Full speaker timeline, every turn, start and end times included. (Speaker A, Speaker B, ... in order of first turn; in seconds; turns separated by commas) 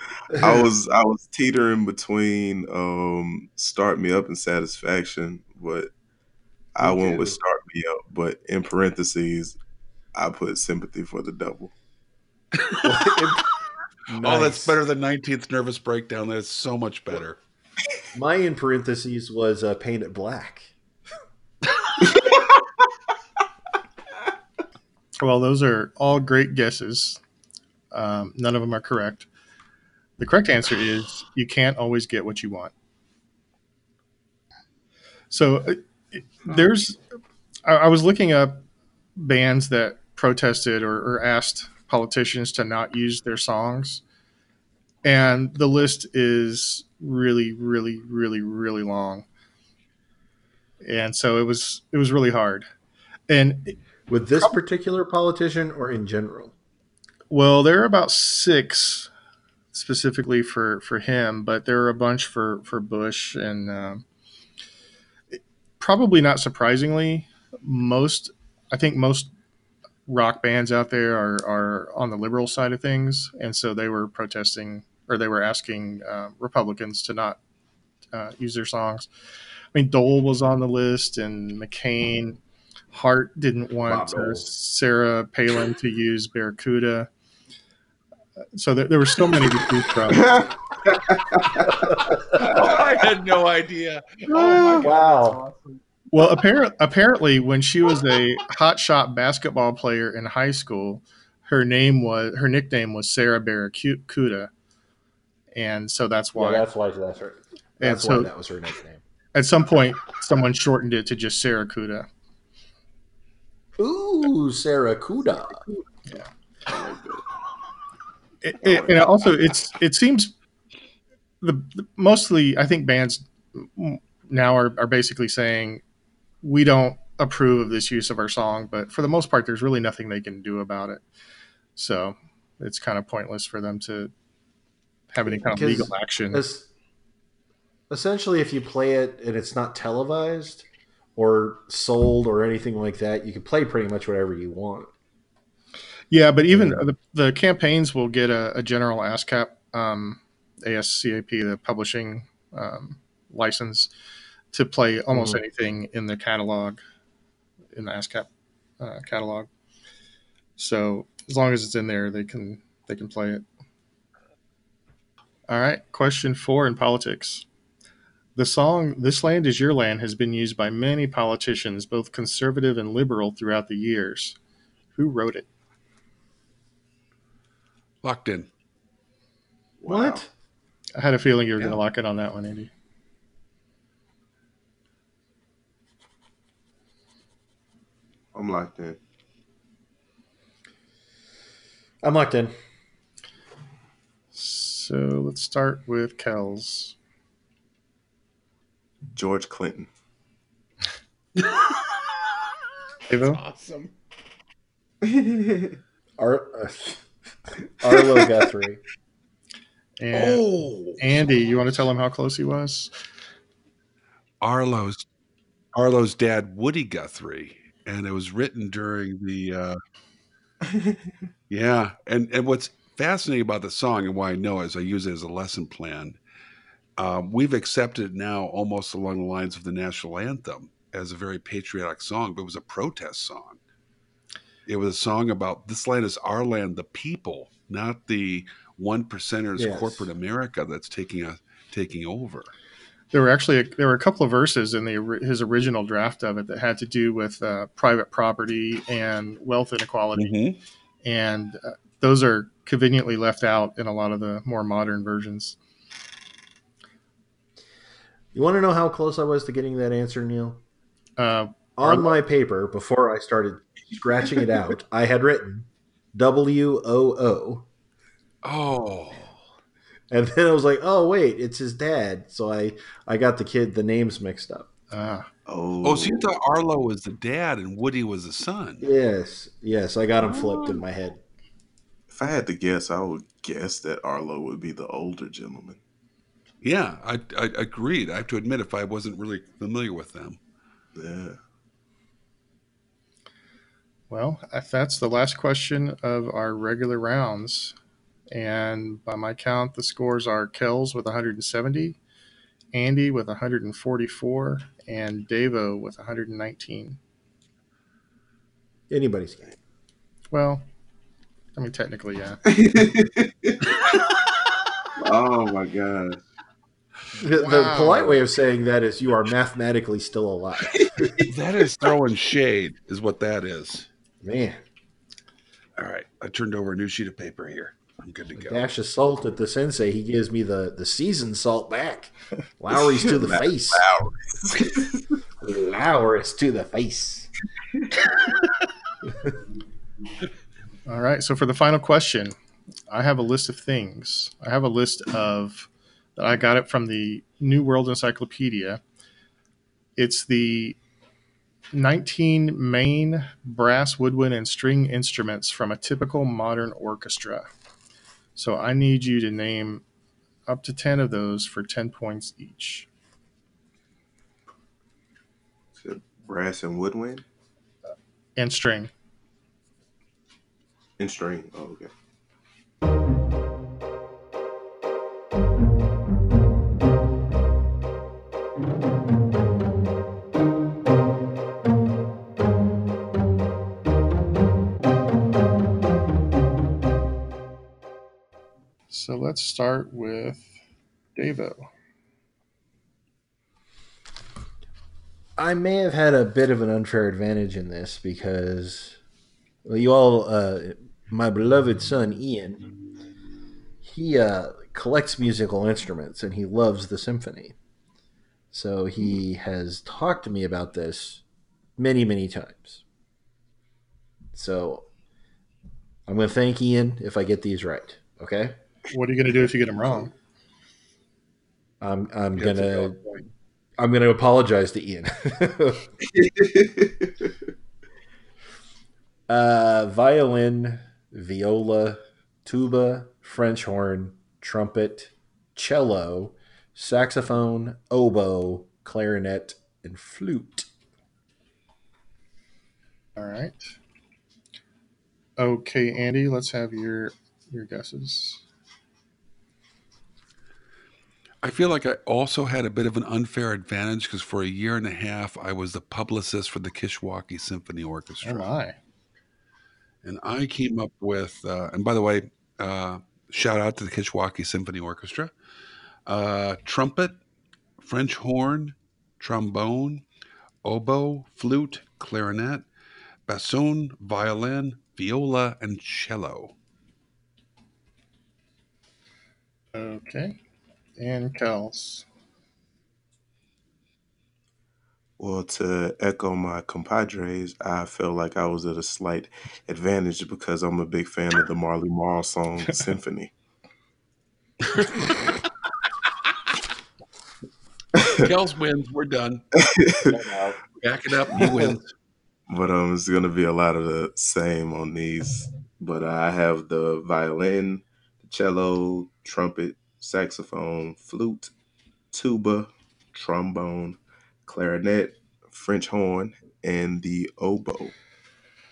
Speaker A: 0.3-5.9, Speaker A: 6.7-9.6, Speaker B: 6.8-7.4, Speaker A: 10.1-11.7, Speaker C: 12.6-12.9, Speaker B: 12.8-13.5, Speaker B: 14.1-14.8, Speaker C: 14.2-17.4, Speaker B: 18.1-20.7, Speaker D: 25.2-27.2, Speaker D: 27.9-29.3, Speaker D: 30.2-32.7, Speaker D: 35.3-37.0, Speaker D: 37.6-38.6, Speaker D: 39.2-44.0, Speaker D: 45.0-49.2, Speaker D: 50.8-52.7, Speaker D: 53.3-53.8, Speaker B: 54.1-56.5, Speaker D: 57.3-59.1, Speaker D: 59.7-64.0, Speaker D: 65.3-69.3, Speaker D: 70.1-77.4, Speaker D: 78.1-79.1, Speaker D: 79.7-82.4, Speaker D: 82.9-87.1, Speaker B: 83.9-84.5, Speaker D: 88.5-90.3, Speaker A: 90.1-91.7, Speaker B: 91.9-92.5, Speaker C: 92.3-94.9, Speaker A: 92.4-93.0, Speaker A: 94.3-94.8, Speaker B: 94.7-95.4, Speaker D: 96.1-104.5, Speaker D: 105.5-106.7, Speaker B: 106.3-109.0, Speaker D: 107.8-108.3, Speaker D: 109.3-112.1, Speaker B: 113.8-115.6, Speaker A: 116.7-117.2, Speaker D: 118.4-120.3, Speaker A: 118.6-119.2, Speaker D: 121.4-125.8, Speaker D: 126.4-131.0, Speaker D: 131.8-134.1, Speaker D: 135.1-136.4, Speaker B: 135.3-136.7, Speaker B: 137.9-144.9, Speaker D: 146.1-153.9, Speaker B: 146.5-146.8, Speaker D: 154.5-156.8, Speaker B: 155.1-155.4, Speaker D: 157.7-158.3, Speaker D: 158.8-159.5, Speaker D: 160.6-163.4, Speaker D: 165.5-167.4, Speaker D: 168.3-174.4, Speaker D: 174.9-175.4, Speaker C: 178.0-178.5, Speaker A: 179.8-180.2, Speaker B: 179.9-180.3, Speaker D: 180.9-182.7, Speaker A: 188.3-189.0, Speaker B: 192.0-192.5, Speaker D: 194.3-196.9, Speaker A: 199.1-199.9, Speaker D: 203.1-203.4, Speaker C: 203.2-203.9, Speaker A: 205.0-205.7, Speaker B: 206.2-207.0, Speaker B: 207.6-208.8, Speaker D: 210.0-210.4, Speaker C: 210.1-211.0, Speaker D: 210.9-212.9, Speaker C: 214.4-215.0, Speaker C: 215.7-219.8, Speaker C: 221.5-226.2, Speaker C: 227.0-233.6, Speaker C: 234.7-242.5, Speaker B: 239.6-240.1, Speaker D: 243.1-250.3, Speaker C: 250.2-250.6, Speaker D: 251.0-255.6, Speaker B: 258.3-260.6, Speaker D: 261.2-262.1, Speaker B: 261.8-267.6, Speaker C: 268.4-269.3, Speaker B: 270.1-274.7, Speaker D: 274.9-275.3, Speaker A: 275.5-276.3, Speaker C: 275.8-278.9, Speaker B: 278.8-281.2, Speaker C: 280.3-280.8, Speaker A: 282.1-285.8, Speaker C: 286.6-290.4, Speaker A: 290.9-291.4, Speaker D: 294.1-297.7, Speaker D: 298.3-302.0, Speaker D: 302.7-307.0, Speaker B: 308.9-309.5, Speaker D: 310.3-310.6, Speaker D: 311.6-312.4, Speaker A: 312.5-313.6, Speaker A: 315.0-316.2, Speaker B: 317.2-321.1, Speaker D: 317.3-318.2, Speaker A: 320.7-321.3, Speaker C: 321.3-323.9, Speaker B: 324.2-324.6, Speaker C: 325.8-328.6, Speaker B: 328.3-333.8, Speaker A: 332.7-334.9, Speaker B: 335.4-337.3, Speaker D: 340.9-342.3, Speaker D: 342.9-348.8, Speaker D: 350.0-350.8, Speaker D: 351.7-357.5, Speaker D: 358.3-359.8, Speaker D: 360.5-362.9, Speaker A: 365.8-367.2, Speaker D: 368.4-368.9, Speaker A: 371.0-371.9, Speaker D: 388.9-390.5, Speaker D: 391.1-391.6, Speaker B: 395.4-399.0, Speaker B: 399.6-402.7, Speaker B: 403.8-407.5, Speaker B: 408.5-411.2, Speaker B: 411.8-412.8, Speaker B: 414.3-414.9, Speaker B: 416.1-418.6, Speaker D: 418.9-420.1, Speaker B: 421.8-423.0, Speaker C: 422.4-423.2, Speaker B: 423.8-425.9, Speaker A: 426.1-427.1, Speaker B: 429.3-440.7, Speaker D: 443.2-443.7, Speaker D: 445.4-448.4, Speaker C: 451.4-458.5, Speaker D: 458.2-458.8, Speaker C: 460.0-465.3, Speaker C: 466.1-467.2, Speaker C: 467.8-470.0, Speaker C: 470.6-472.6, Speaker C: 473.3-476.5, Speaker D: 479.7-480.4, Speaker D: 481.0-482.1, Speaker A: 485.2-493.3, Speaker A: 498.0-498.2, Speaker C: 498.1-499.4, Speaker A: 499.7-500.1, Speaker B: 500.1-500.6, Speaker C: 500.8-501.9, Speaker B: 501.4-501.7, Speaker A: 502.5-511.5, Speaker A: 512.1-517.9